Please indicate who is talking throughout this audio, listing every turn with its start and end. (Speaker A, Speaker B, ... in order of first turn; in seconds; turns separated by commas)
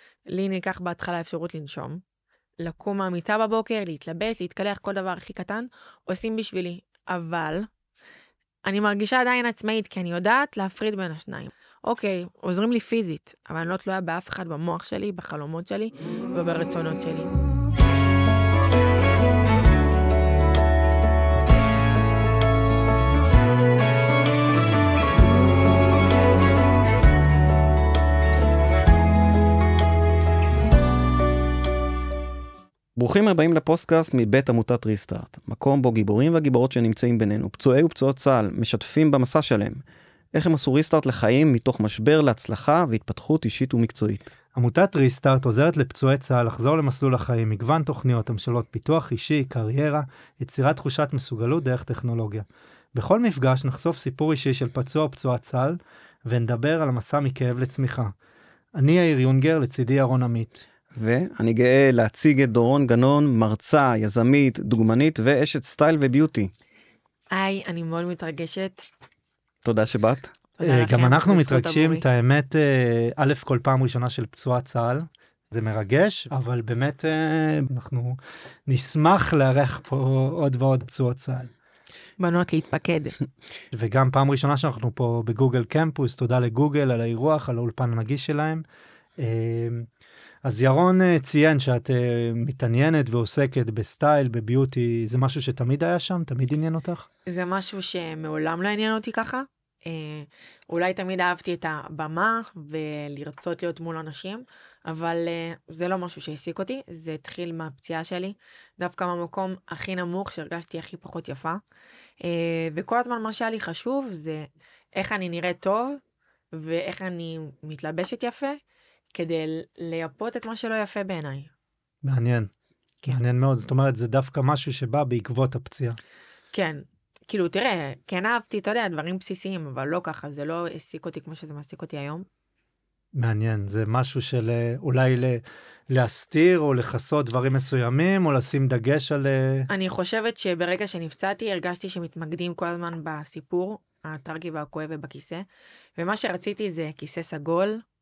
Speaker A: 0.3-2.0, Speaker A: 2.6-7.7, Speaker A: 8.7-17.3, Speaker B: 33.0-39.8, Speaker B: 40.3-44.3, Speaker C: 44.5-58.1, Speaker C: 58.7-60.6, Speaker B: 60.9-66.5, Speaker A: 67.3-68.8, Speaker B: 69.6-70.3, Speaker A: 70.6-72.0, Speaker C: 70.6-81.5, Speaker A: 82.2-83.1, Speaker C: 83.7-88.6, Speaker C: 89.2-89.9, Speaker C: 90.4-97.1, Speaker A: 97.2-111.6, Speaker A: 112.2-116.0, Speaker A: 116.5-118.6, Speaker A: 119.1-121.5, Speaker C: 122.0-122.5, Speaker C: 123.0-126.0, Speaker A: 126.5-132.2, Speaker C: 133.2-139.7, Speaker A: 139.7-145.4, Speaker A: 146.0-147.8